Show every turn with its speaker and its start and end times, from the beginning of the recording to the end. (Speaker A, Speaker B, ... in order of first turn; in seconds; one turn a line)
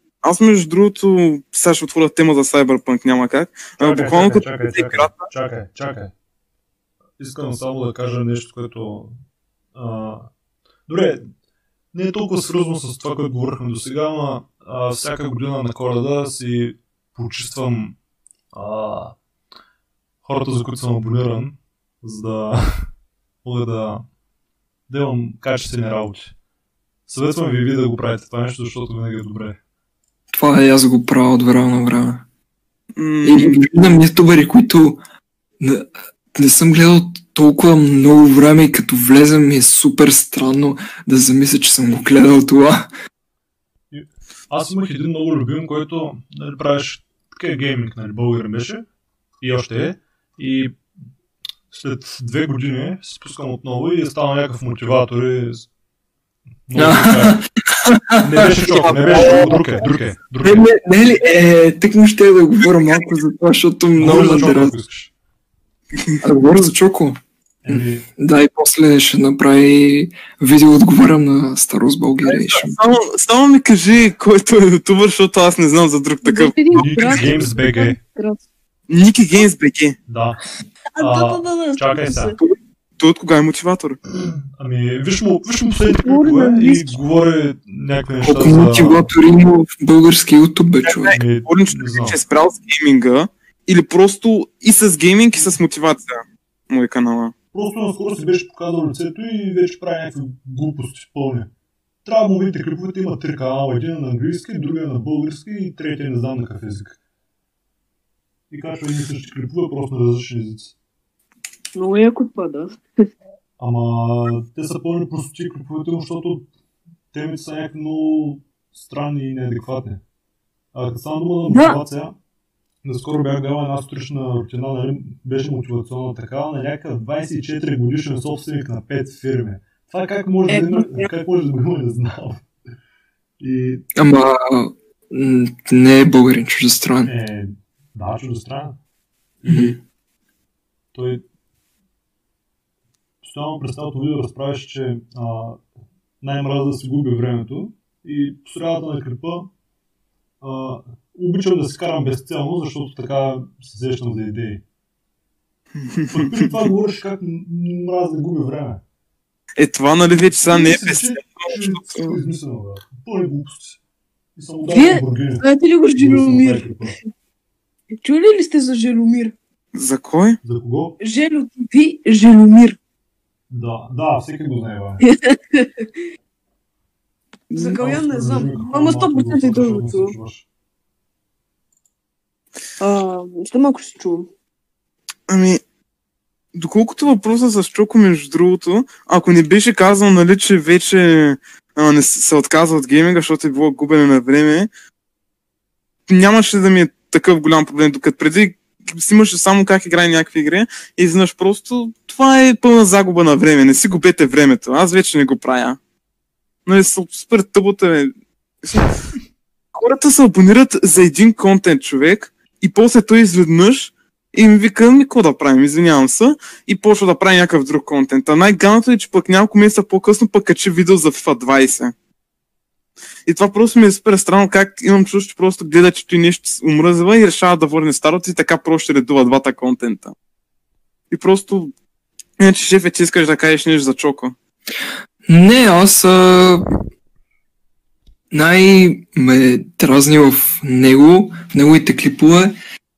Speaker A: 0.2-5.2
Speaker B: 3.8-6.1
Speaker B: 7.2-9.2
Speaker B: 9.8-10.3
Speaker B: 10.9-11.3
Speaker B: 11.9-17.9
Speaker B: 18.5-19.2
Speaker B: 20.2-22.9
Speaker B: 23.4-24.1
Speaker B: 24.9-26.3
Speaker B: 27.1-29.6
Speaker C: 30.3-32.3
Speaker A: 33.0-33.6
Speaker C: 33.2-35.0
Speaker C: 35.6-42.9
Speaker B: 43.9-48.9
Speaker B: 49.4-50.8
Speaker B: 51.7-55.7
Speaker B: 56.7-57.4
Speaker C: 56.8-64.8
Speaker B: 58.2-60.7
Speaker B: 64.0-65.1
Speaker A: 66.0-66.2
Speaker C: 66.2-72.8
Speaker B: 67.7-68.0
Speaker A: 72.2-77.3
Speaker D: 76.2-78.4
Speaker B: 76.8-78.0
Speaker A: 78.9-80.0
Speaker B: 80.1-80.4
Speaker D: 81.0-82.4
Speaker B: 81.0-82.4
Speaker A: 82.4-84.0
Speaker B: 84.1-89.1
Speaker D: 85.9-86.9
Speaker C: 88.2-91.2
Speaker A: 90.9-97.3
Speaker B: 91.1-92.2
Speaker B: 97.5-101.5
Speaker B: 102.0-107.0
Speaker B: 108.5-110.7
Speaker D: 111.8-112.8
Speaker B: 113.6-116.5
Speaker B: 117.1-120.0
Speaker B: 120.7-122.2
Speaker D: 121.5-121.8
Speaker B: 122.8-132.5
Speaker D: 130.5-131.1
Speaker B: 133.4-133.8
Speaker C: 134.0-137.1
Speaker B: 137.1-138.8
Speaker B: 139.4-139.8
Speaker C: 139.5-139.8
Speaker B: 140.9-141.2
Speaker B: 143.2-145.6
Speaker B: 146.2-149.5
Speaker B: 150.4-154.6
Speaker A: 155.8-156.5
Speaker B: 156.1-158.8
Speaker A: 159.6-162.2
Speaker B: 160.5-163.8
Speaker B: 164.4-167.0
Speaker D: 164.7-166.7
Speaker D: 168.0-169.3
Speaker A: 169.7-170.4
Speaker B: 170.4-171.0
Speaker D: 171.0-172.8
Speaker B: 173.5-175.0
Speaker D: 175.0-175.9
Speaker D: 177.5-180.2
Speaker B: 177.6-180.4
Speaker D: 182.8-184.3
Speaker A: 185.3-185.6
Speaker A: 186.6-194.7
Speaker A: 196.1-205.8
Speaker A: 206.7-208.1
Speaker A: 208.6-209.0
Speaker A: 209.7-221.9
Speaker A: 223.3-230.2
Speaker A: 231.1-231.7
Speaker A: 232.4-234.3
Speaker C: 235.3-236.7
Speaker C: 238.3-242.5